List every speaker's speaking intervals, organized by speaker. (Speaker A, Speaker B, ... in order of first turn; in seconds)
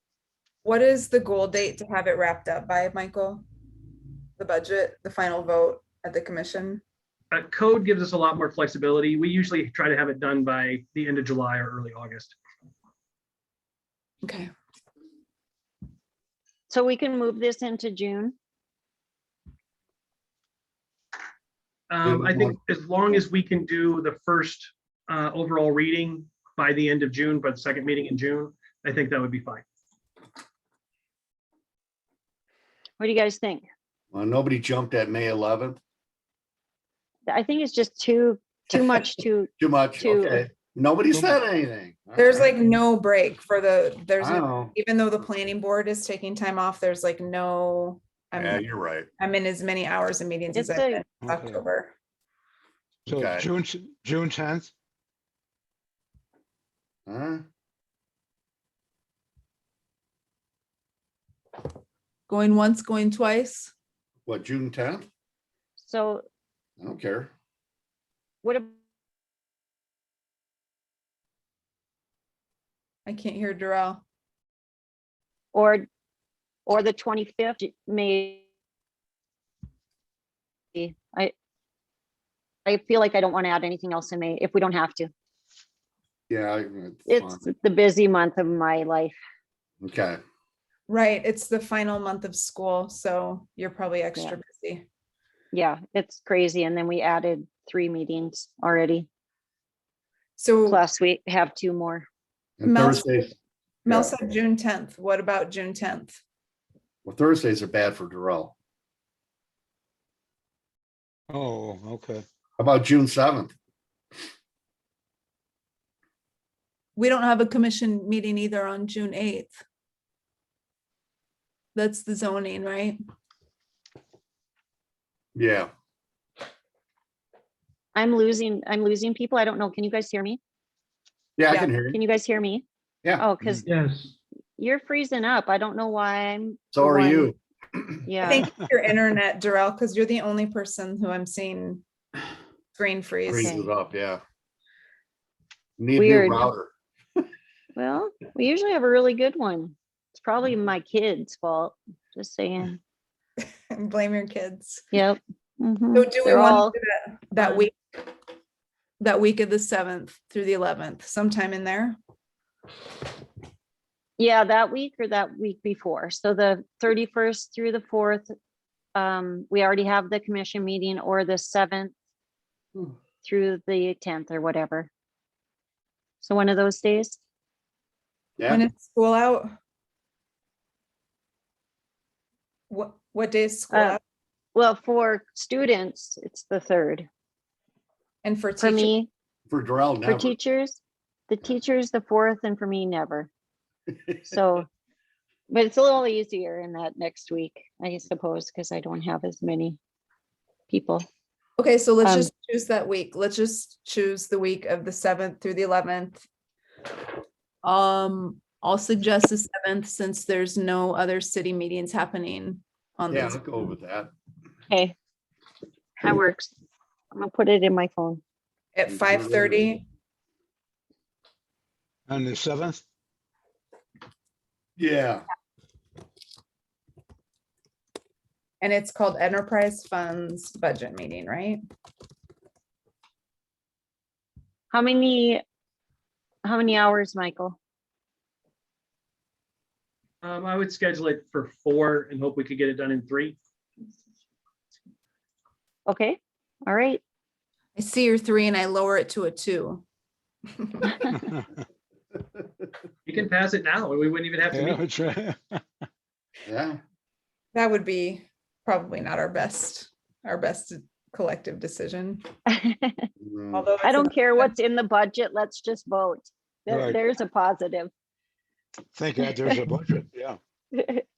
Speaker A: 0.6-3.4, 4.4-6.8, 14.2-14.5, 42.1-48.6, 49.2-51.9, 62.3-63.7, 73.0-74.0, 90.9-94.8, 100.4-100.8, 102.7-103.1, 103.8-106.2, 117.0-119.6, 121.7-123.0, 131.5-131.7, 138.3-141.8, 142.8-143.5, 153.7-154.9, 155.9-158.1, 159.0-162.0, 178.5-179.5, 182.7-184.0, 188.2-188.9, 201.6-206.2, 207.6-213.4, 218.7-219.8, 228.6-231.6, 247.8-249.8, 250.6-251.2, 257.5-262.2, 263.5-264.5
Speaker B: 7.3-12.3, 21.9-29.6, 240.2-243.4, 253.1-254.8
Speaker C: 16.7-18.3, 33.0-33.6, 37.3-40.4, 50.5-51.0, 65.8-66.2, 68.4-68.7, 75.5-75.8, 76.7-78.4, 80.7-81.3, 82.7-85.1, 87.1-89.2, 95.5-99.1, 100.7-102.1, 127.9-130.4, 131.8-132.6, 133.2-133.7, 134.6-137.3, 138.0-138.4, 145.9-146.4, 147.7-152.8, 154.9-156.7, 164.2-168.3, 168.9-171.9, 173.2-174.9, 176.2-177.2, 183.7-184.0, 184.5-187.1, 188.6-189.1, 190.0-193.3, 194.2-194.7, 195.5-199.8, 200.7-201.1, 202.0-202.3, 214.7-214.9, 216.0-216.5, 217.1-218.2, 234.7-235.4, 236.4-237.6, 245.8-247.0, 262.5-263.1, 263.8-267.9, 270.7-271.0
Speaker D: 22.0-22.6, 34.1-35.8, 39.6-42.5, 44.2-44.7, 48.4-49.1, 53.1-53.5, 57.1-57.4, 64.2-65.1, 66.8-67.3, 86.3-87.4, 89.8-90.2, 102.6-103.3, 103.9-104.2, 107.0-108.5, 112.6-113.5, 125.3-125.7, 131.4-132.0, 133.0-133.7, 136.7-138.1, 143.3-144.2, 145.8-146.7, 189.5-190.3, 213.1-214.1, 218.9-219.7, 224.8-225.2, 256.4-256.8, 263.2-263.7
Speaker E: 51.2-51.6, 53.0-54.7, 111.3-112.2, 222.1-222.8, 251.0-251.4, 254.5-255.6, 266.7-267.0, 268.9-270.4